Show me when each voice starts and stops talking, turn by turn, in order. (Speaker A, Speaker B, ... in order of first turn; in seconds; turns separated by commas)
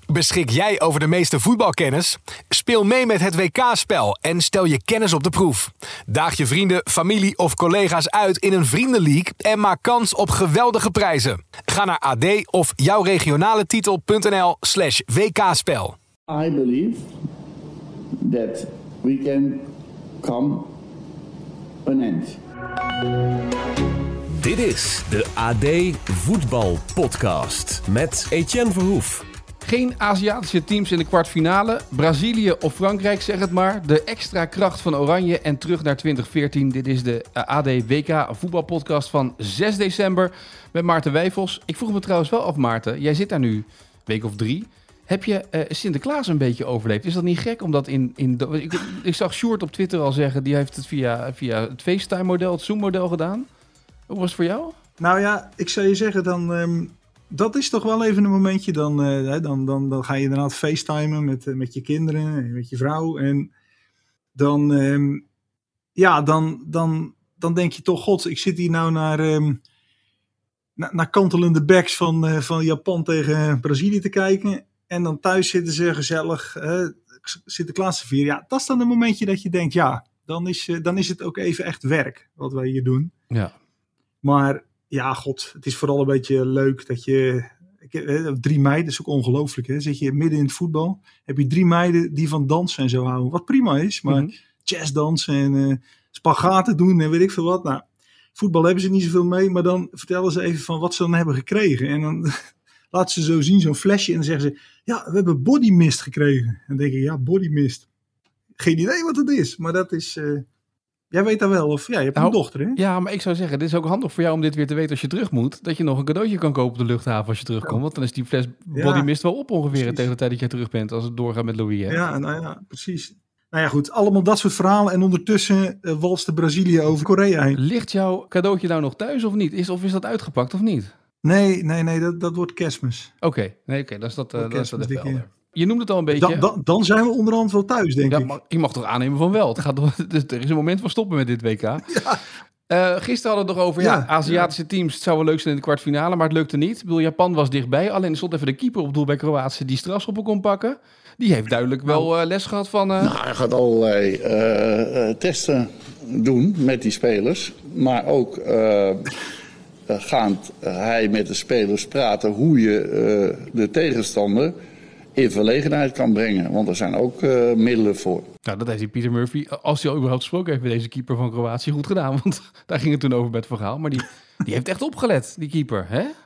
Speaker A: 0.1-15.9, Speaker B: 16.3-17.1, Speaker B: 18.2-19.7, Speaker B: 20.2-20.7, Speaker B: 21.8-22.4, Speaker C: 24.3-29.2, Speaker D: 29.6-53.5, Speaker D: 54.1-54.7, Speaker E: 55.0-63.5, Speaker E: 64.3-65.2, Speaker E: 66.0-69.6, Speaker E: 70.8-83.1, Speaker E: 84.2-107.9, Speaker D: 94.1-94.3, Speaker E: 108.6-110.5, Speaker E: 111.1-112.8, Speaker D: 112.2-122.0, Speaker E: 118.7-119.1, Speaker E: 119.7-120.1, Speaker E: 121.9-127.6, Speaker D: 127.5-130.9, Speaker E: 131.2-133.1, Speaker D: 133.2-136.5, Speaker E: 134.3-135.3, Speaker E: 136.1-138.3, Speaker D: 138.0-141.9, Speaker E: 141.9-142.2, Speaker D: 142.7-153.1, Speaker E: 143.8-144.5, Speaker B: 153.0-159.2, Speaker B: 159.9-164.5, Speaker B: 165.2-168.3, Speaker D: 168.4-176.1